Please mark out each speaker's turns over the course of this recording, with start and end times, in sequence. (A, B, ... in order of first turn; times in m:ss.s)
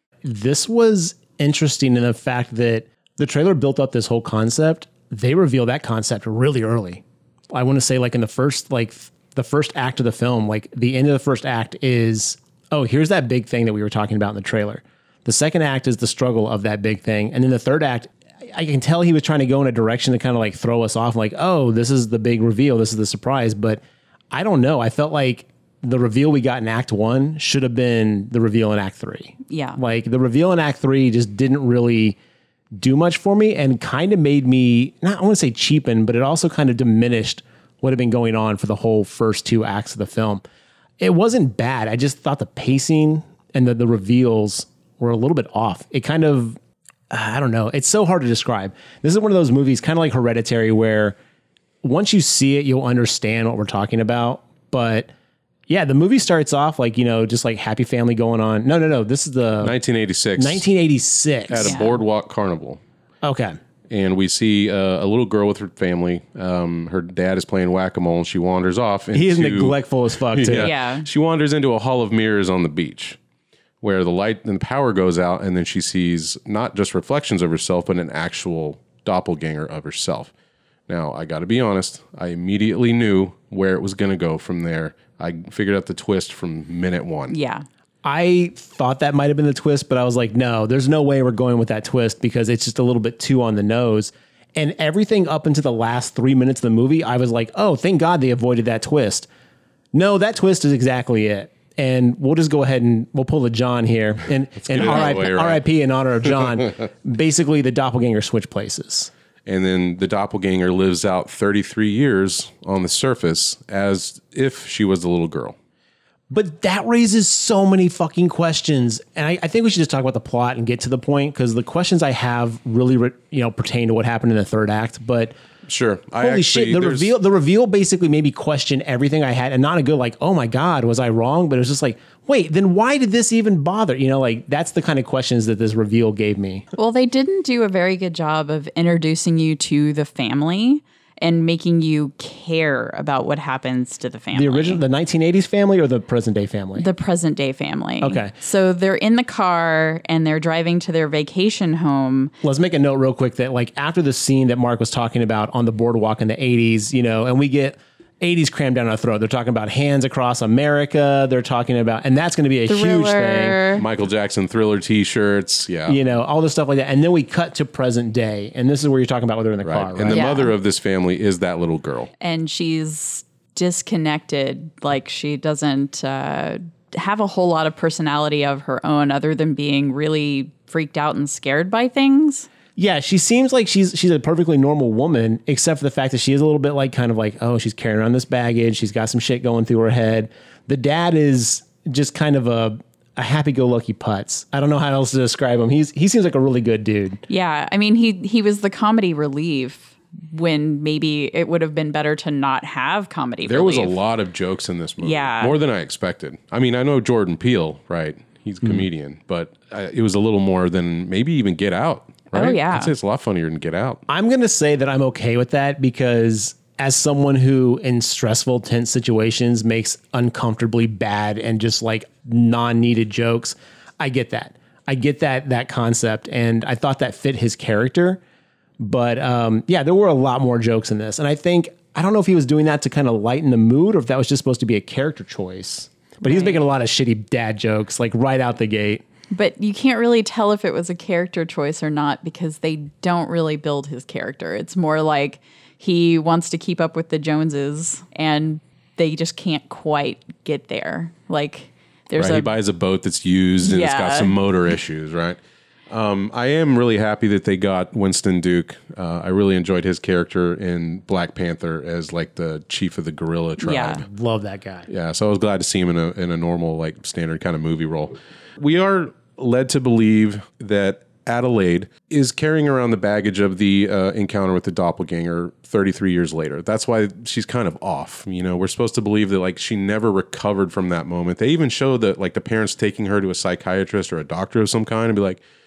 0:00.2-0:32.2 A
0:29.5-0:29.8 B
0:32.7-0:40.4 A
0:41.0-0:46.6 A
0:47.1-0:51.2 A
0:51.8-0:55.1 A
0:55.7-0:59.7 A
0:59.6-1:00.6 C
1:00.4-1:01.8 A
1:01.5-1:02.8 C
1:01.6-1:02.0 B
1:03.2-1:03.6 A
1:03.9-1:09.8 C
1:09.1-1:10.7 A
1:10.3-1:13.2 C
1:10.6-1:11.1 B
1:13.8-1:20.3 C
1:20.9-1:27.3 C
1:27.3-1:27.6 B
1:28.0-1:39.3 A
1:39.9-1:49.1 A
1:44.6-1:45.6 C
1:49.4-1:55.6 C
1:56.3-2:05.3 A
2:05.7-2:07.1 C
2:06.2-2:16.6 A
2:16.8-2:24.8 B
2:24.3-2:26.9 A
2:26.8-2:32.3 B
2:28.0-2:28.3 A
2:32.4-2:43.6 A
2:42.7-2:43.8 B
2:43.8-2:46.0 C
2:45.9-2:50.2 A
2:49.6-2:52.1 C
2:50.1-2:50.5 B
2:52.2-3:02.5 B
3:02.8-3:17.2 A
3:17.3-3:24.0 B
3:23.4-3:34.0 C
3:25.0-3:25.6 B
3:32.3-3:32.9 B
3:34.1-3:48.2 A
3:48.8-3:59.0 A
3:56.2-3:56.6 B
3:59.3-4:12.5 B
4:12.1-4:24.0 C
4:13.6-4:14.3 B
4:23.6-4:24.0 B
4:24.1-4:24.9 A
4:24.9-4:45.4 C